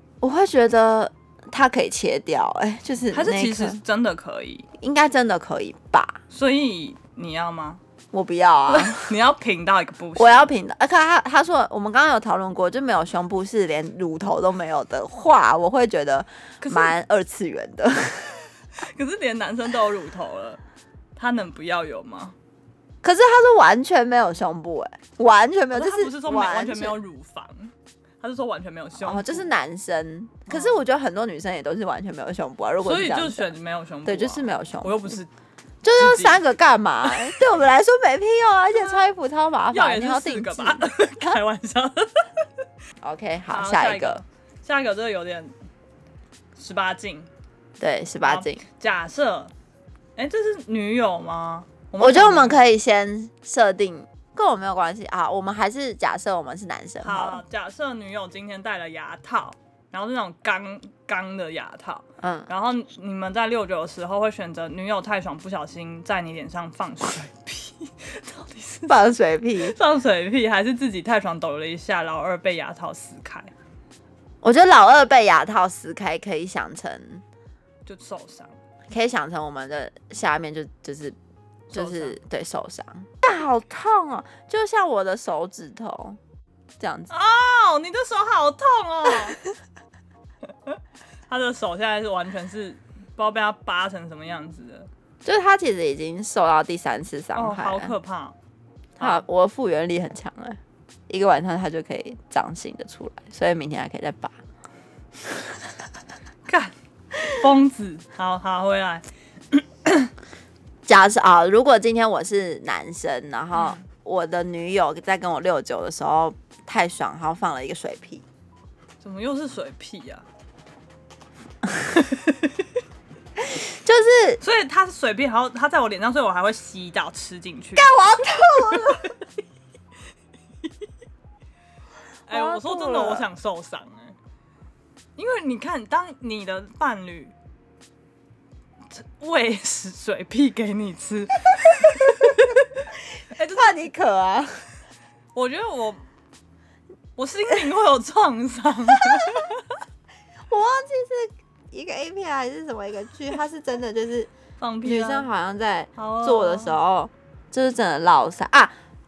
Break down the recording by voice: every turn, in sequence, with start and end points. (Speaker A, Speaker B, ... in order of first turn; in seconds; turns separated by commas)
Speaker A: 0.2-3.8, Speaker B: 3.1-4.7, Speaker A: 4.8-6.2, Speaker B: 6.3-7.8, Speaker A: 8.1-9.1, Speaker B: 8.7-10.5, Speaker A: 10.2-18.4, Speaker B: 16.6-17.0, Speaker B: 18.7-20.6, Speaker B: 21.2-22.4, Speaker A: 23.0-27.0, Speaker B: 25.7-29.5, Speaker A: 29.0-33.5, Speaker B: 30.5-30.8, Speaker B: 32.8-35.3, Speaker A: 34.0-35.2, Speaker A: 35.8-41.4, Speaker B: 36.0-36.4, Speaker B: 38.7-39.0, Speaker B: 39.7-42.3, Speaker A: 43.0-44.2, Speaker B: 43.5-45.5, Speaker B: 46.6-47.3, Speaker A: 47.8-48.6, Speaker B: 48.2-49.5, Speaker B: 50.2-52.6, Speaker A: 52.0-57.4, Speaker B: 57.0-69.0, Speaker A: 62.2-62.5, Speaker A: 68.9-69.8, Speaker B: 69.6-73.5, Speaker A: 74.4-77.2, Speaker B: 77.9-78.6, Speaker A: 78.9-81.2, Speaker A: 81.7-86.2, Speaker B: 81.7-82.2, Speaker A: 86.8-87.1, Speaker B: 87.1-89.4, Speaker B: 90.7-94.9, Speaker A: 95.2-97.9, Speaker B: 97.3-98.4, Speaker A: 99.0-104.4, Speaker B: 106.5-110.1, Speaker A: 110.9-118.2, Speaker B: 113.5-113.8, Speaker B: 119.0-120.2, Speaker B: 121.9-122.5, Speaker A: 123.4-124.4, Speaker B: 124.4-127.9, Speaker A: 127.8-129.1, Speaker B: 128.7-129.1, Speaker B: 132.3-134.2, Speaker A: 132.3-133.2, Speaker B: 135.2-137.3, Speaker B: 138.9-142.7, Speaker B: 143.3-143.8, Speaker A: 143.3-144.7, Speaker B: 145.3-146.0, Speaker B: 147.2-149.7, Speaker A: 149.1-149.4, Speaker A: 150.5-154.3, Speaker B: 154.6-155.3, Speaker A: 154.8-158.7, Speaker B: 156.0-156.8